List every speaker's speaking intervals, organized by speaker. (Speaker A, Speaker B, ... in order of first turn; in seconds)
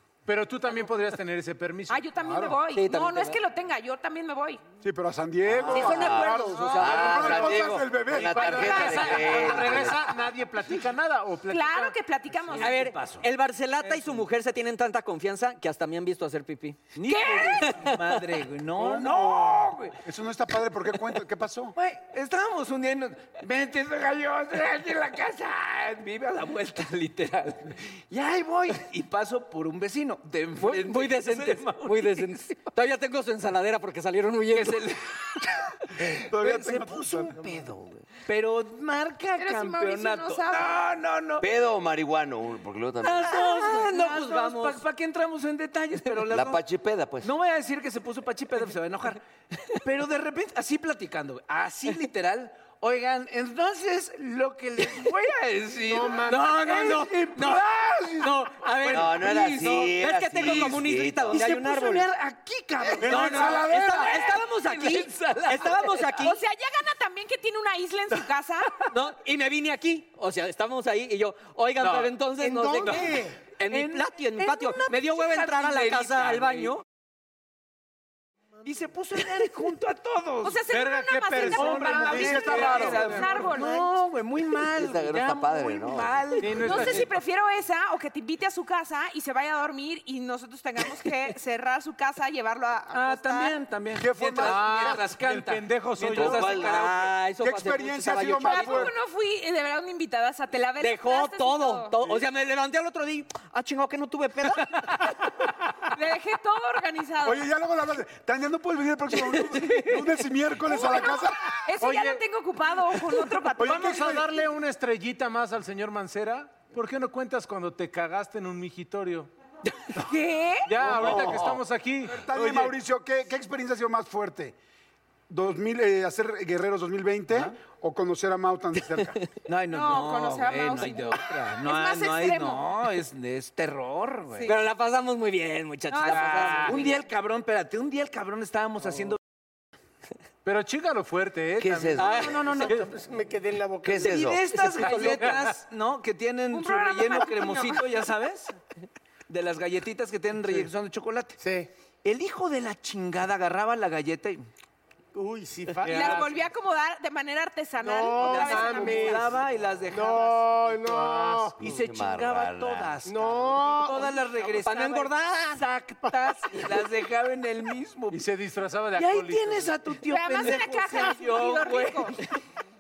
Speaker A: 0.3-2.0, 8.2-11.9, 63.0-64.0, 80.7-83.4, 86.4-87.1, 94.4-96.6, 111.8-112.2, 113.6-119.3, 120.7-122.8, 136.2-136.8, 140.4-142.8, 144.9-145.5, 155.8-156.3, 161.0-161.5, 168.1-169.8
Speaker B: 1.9-4.6, 8.6-9.6, 11.5-12.9, 17.1-17.7, 39.4-40.7, 66.2-68.7, 80.4-83.9, 86.6-93.5, 98.5-102.0, 105.9-107.4, 110.7-114.2, 120.0-120.7, 129.7-132.7, 135.9-136.9, 146.5-147.8, 155.9-159.3, 170.1-172.2
Speaker C: 2.2-2.6, 4.8-8.9, 18.8-21.8, 36.1-37.4, 82.1-83.1, 94.0-94.9, 97.4-98.9, 107.2-111.4, 113.6-114.3, 120.8-121.6, 122.1-124.6, 125.3-129.2
Speaker D: 2.7-3.4, 5.7-7.6, 12.6-16.8, 17.6-18.2, 30.6-34.8, 43.3-44.8, 56.3-57.6, 58.2-62.1, 63.0-66.4, 68.9-76.8, 96.5-98.9, 100.8-104.8, 109.3-109.6, 134.5-136.8, 144.8-145.3, 164.5-165.6
Speaker E: 5.5-10.1, 41.4-43.4, 46.3-47.3, 58.9-61.4, 84.7-86.4, 96.2-97.0, 141.6-142.3, 143.8-144.4, 161.6-163.0
Speaker F: 12.6-13.3, 16.9-20.0, 21.8-32.6, 34.5-41.5, 43.0-46.6, 47.2-49.2, 49.8-59.8, 60.4-66.3, 71.8-72.1, 72.8-73.1, 73.7-76.8, 78.6-80.6, 81.5-87.1, 92.9-97.1, 121.0-121.5, 129.5-134.6, 136.1-139.2, 142.0-142.8, 144.0-148.6, 149.3-151.4, 152.0-154.5, 158.2-161.0, 161.6-168.2, 169.0-172.3
Speaker G: 55.9-56.5, 72.4-73.4, 142.2-144.2, 151.4-151.7, 155.1-156.3, 157.8-159.4, 159.9-161.6, 163.1-164.2